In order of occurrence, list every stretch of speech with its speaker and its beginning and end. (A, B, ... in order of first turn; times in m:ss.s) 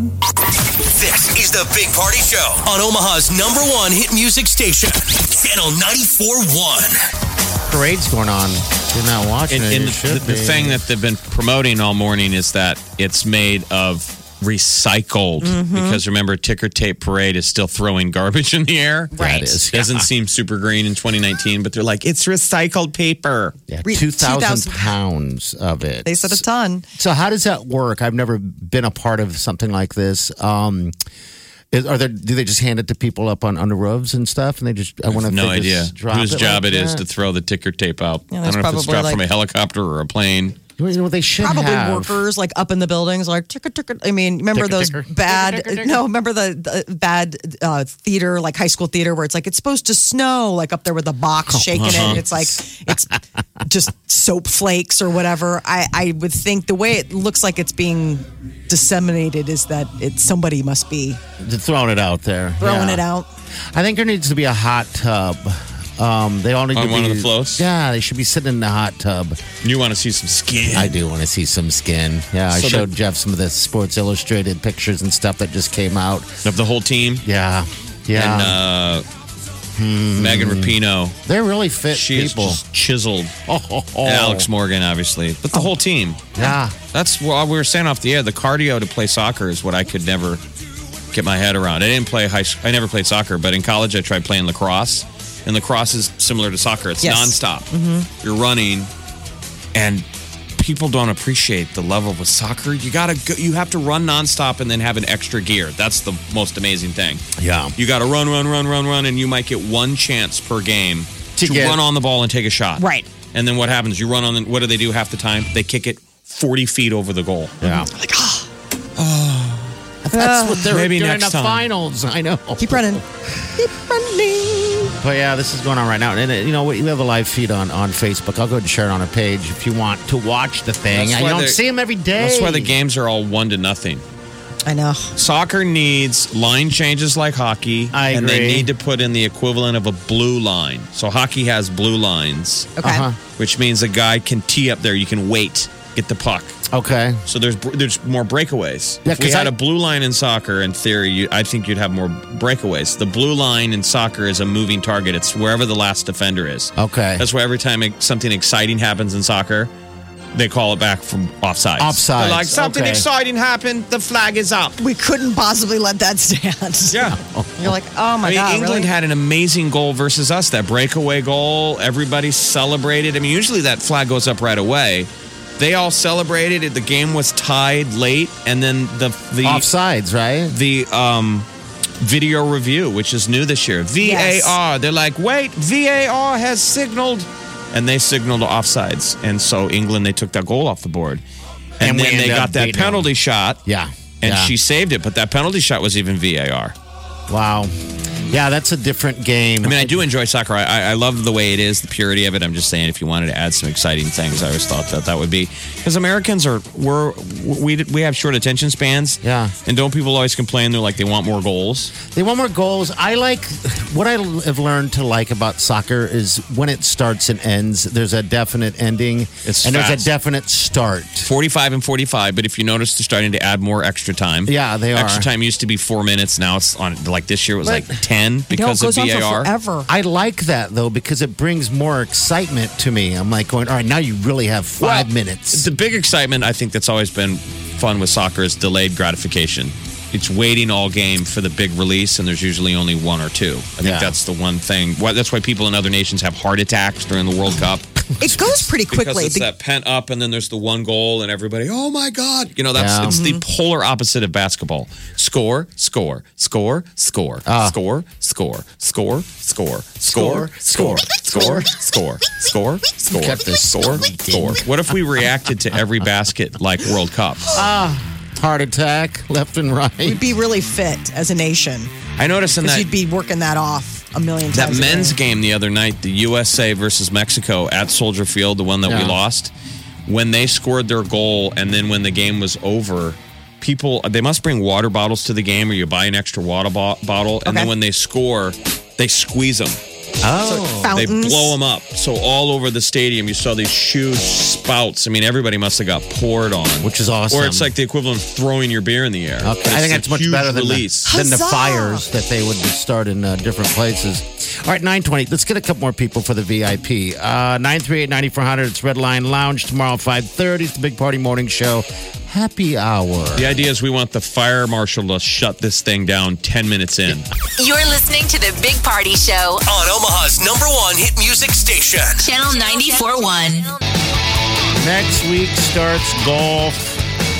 0:00.8-0:07.0 A
0:07.7-0:10.8 B
0:09.5-0:23.6 C
0:15.4-0:16.0 D
0:19.1-0:19.6 D
0:19.2-0:20.0 B
0:23.7-0:26.3 B
0:23.8-0:25.0 D
0:26.0-0:26.8 D
0:27.0-0:30.9 B
0:31.7-0:37.0 B
0:35.1-0:40.6 C
0:38.3-0:39.2 D
0:40.8-0:42.2 B
0:41.4-1:01.2 D
0:44.5-0:46.1 B
0:51.5-0:53.0 B
0:51.7-0:52.2 C
1:01.4-1:03.0 B
1:02.6-1:03.3 D
1:03.7-1:09.4 B
1:06.7-1:07.6 C
1:09.6-1:11.0 C
1:10.7-1:16.3 B
1:12.5-1:12.9 C
1:16.4-1:17.2 C
1:17.2-1:18.6 B
1:18.1-1:19.0 C
1:19.7-1:20.7 B
1:20.1-1:21.2 C
1:21.2-1:22.6 B
1:21.9-1:23.3 C
1:23.4-1:24.5 B
1:24.0-1:30.4 C
1:26.4-1:26.8 B
1:31.1-1:38.9 C
1:37.0-1:38.1 D
1:39.7-1:40.0 C
1:40.6-1:57.6 C
1:47.4-1:47.7 B
1:51.4-1:51.8 B
1:52.8-1:53.1 D
1:57.6-1:57.9 B
1:57.6-1:58.5 D
1:59.0-1:59.7 C
2:00.0-2:00.7 D
2:00.1-2:03.5 B
2:00.6-2:01.7 C
2:02.6-2:03.0 D
2:03.6-2:04.9 D
2:05.0-2:12.7 B
2:10.9-2:11.6 C
2:12.1-2:14.0 C
2:14.6-2:15.1 D
2:15.1-2:22.8 C
2:17.9-2:18.7 B
2:22.8-2:23.1 D
2:22.8-2:23.2 B
2:23.4-2:26.6 C
2:26.7-2:27.2 B
2:27.2-2:39.7 C
2:29.0-2:29.5 B
2:36.8-2:37.2 B
2:40.3-2:44.8 C
2:41.8-2:43.0 B
2:44.8-2:48.9 D
2:46.9-2:47.2 C
2:47.0-2:47.7 B
2:48.2-2:59.7 C
2:59.4-3:00.6 B
3:00.5-3:01.5 C
3:02.0-3:11.2 C
3:04.0-3:04.6 D
3:11.8-3:13.6 C
3:11.8-3:13.1 B
3:13.6-3:14.5 B
3:14.2-3:16.7 C
3:17.3-3:17.7 B
3:18.2-3:20.0 B
3:19.6-3:31.9 C
3:29.2-3:29.5 B
3:32.0-3:41.3 B
3:39.4-3:40.1 C
3:41.2-3:49.5 C
3:44.4-3:45.3 B
3:47.6-3:48.0 B
3:48.5-3:49.9 D
3:49.9-3:55.7 B
3:54.8-4:27.5 C
4:03.8-4:04.2 B
4:08.2-4:09.5 D
4:12.7-4:13.2 B
4:13.0-4:13.4 D
4:17.4-4:17.8 B
4:20.1-4:21.7 B
4:23.1-4:24.8 B
4:27.5-4:30.2 B
4:30.0-4:31.9 D
4:32.2-4:32.9 C
4:32.6-4:35.2 D
4:34.5-4:39.5 C
4:38.8-4:39.2 B
4:40.0-4:49.8 C
4:47.4-4:47.7 D
4:50.2-4:51.0 B
4:50.4-4:51.6 D
4:50.9-5:01.1 C
4:56.8-4:57.7 B
4:59.4-5:13.6 B
5:01.0-5:02.0 D
5:13.3-5:17.3 C
5:17.6-5:19.6 E
5:19.6-5:22.3 A
5:22.2-5:23.8 E
5:24.8-5:27.0 B